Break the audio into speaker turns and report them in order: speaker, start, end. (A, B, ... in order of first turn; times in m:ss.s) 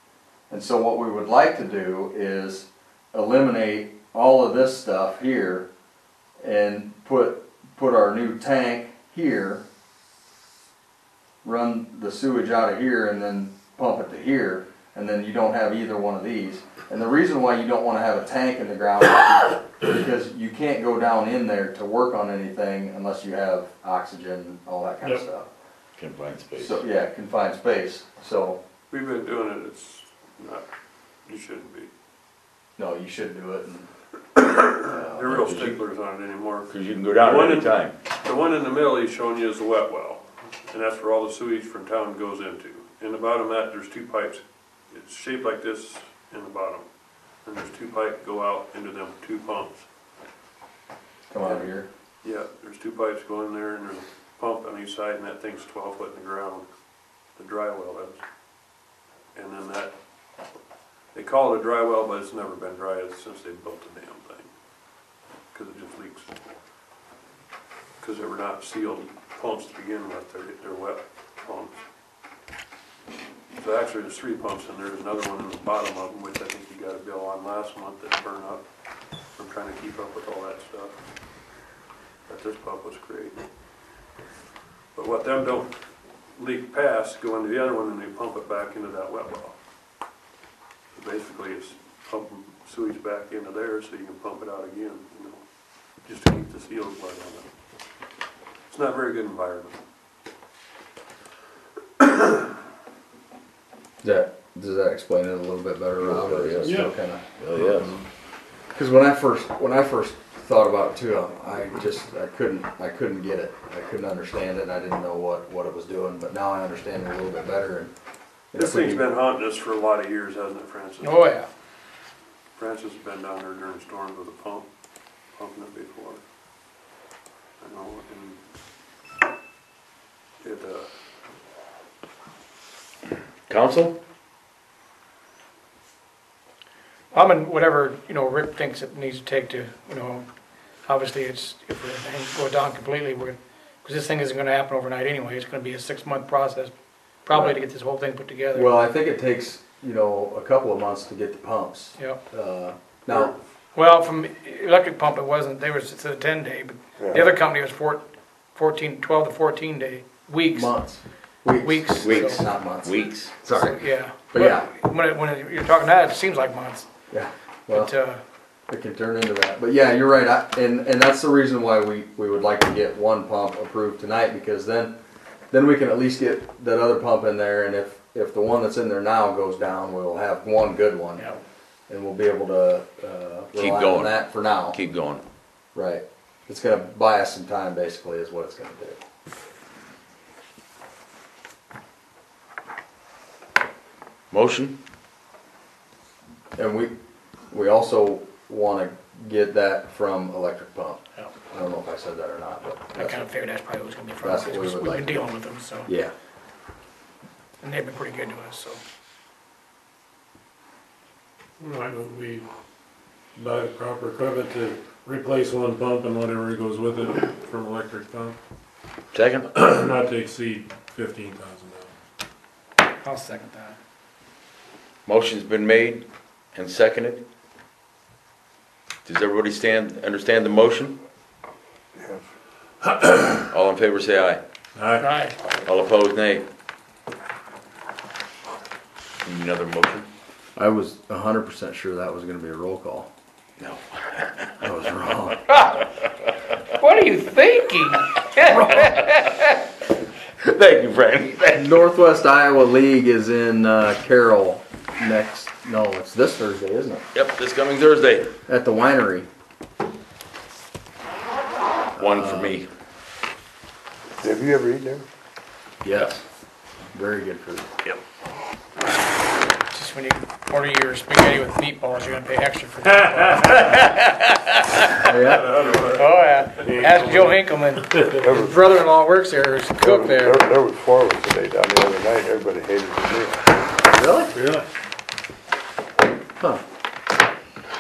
0:00.5-0:05.7 A
0:06.4-0:09.7 A
0:11.4-0:25.5 A
0:26.0-0:26.8 B
0:26.6-0:28.6 A
0:28.9-0:30.7 C
0:31.3-0:31.9 C
0:32.8-0:33.9 A
0:34.4-0:46.9 C
0:34.8-0:35.2 A
0:35.2-0:35.8 B
0:36.7-0:38.0 B
0:47.4-0:49.8 C
0:51.3-0:51.9 A
0:51.4-0:51.7 C
0:52.2-0:56.7 C
0:57.4-0:58.2 C
0:59.4-0:59.9 C
1:01.1-1:04.5 C
1:05.5-1:06.3 C
1:08.0-1:11.8 C
1:13.5-1:18.6 C
1:19.4-1:21.0 C
1:22.3-1:23.4 C
1:24.9-1:25.7 C
1:26.4-1:29.6 C
1:30.9-1:35.4 C
1:36.0-1:37.5 C
1:38.7-1:39.8 C
1:44.0-1:47.2 A
1:46.0-1:48.0 B
1:48.8-1:57.9 A
1:58.5-1:59.1 A
1:58.6-2:01.3 C
2:01.0-2:01.5 D
2:02.6-2:04.7 C
2:05.4-2:06.2 C
2:07.6-2:08.4 C
2:10.4-2:10.9 C
2:13.5-2:14.0 B
2:17.1-2:20.2 D
2:20.9-2:26.7 D
2:27.3-2:28.7 D
2:27.3-2:27.6 A
2:28.5-2:33.4 A
2:33.8-2:38.0 D
2:37.0-2:37.4 E
2:38.6-2:40.7 D
2:40.5-2:43.8 A
2:41.5-2:42.4 D
2:42.0-2:43.3 B
2:43.5-2:46.9 D
2:44.3-2:44.7 A
2:47.1-2:47.9 A
2:47.7-2:48.2 D
2:48.7-2:55.0 A
2:55.5-3:01.3 A
3:01.9-3:04.8 A
3:03.6-3:05.2 B
3:05.7-3:09.0 A
3:14.3-3:14.8 B
3:16.6-3:16.9 A
3:17.5-3:23.3 A
3:22.9-3:25.9 D
3:24.2-3:25.3 A
3:25.9-3:26.1 A
3:27.6-3:28.8 D
3:31.6-3:32.5 F
3:33.4-3:38.4 F
3:39.1-3:39.5 B
3:39.5-3:41.9 F
3:43.0-3:43.8 D
3:45.1-3:47.2 B
3:49.1-3:51.0 B
3:52.0-3:52.2 E
3:53.5-3:54.4 B
3:54.8-3:55.1 F
3:55.0-3:55.4 D
3:55.5-3:56.5 B
3:59.2-4:00.1 B
4:00.6-4:03.1 A
4:03.6-4:04.5 B
4:04.6-4:05.4 A
4:06.8-4:09.4 D
4:10.4-4:11.8 B
4:11.6-4:17.0 A
4:17.1-4:18.4 B
4:18.5-4:19.3 A
4:22.0-4:22.6 A
4:22.0-4:22.7 B
4:24.2-4:25.1 E
4:25.8-4:26.2 A
4:26.9-4:27.7 A
4:29.7-4:34.1 D
4:35.0-4:35.7 A
4:35.6-4:35.9 C
4:35.8-4:40.4 D
4:36.6-4:37.0 E
4:38.2-4:38.7 E
4:39.8-4:43.5 E
4:43.9-4:44.4 A
4:44.4-4:44.6 F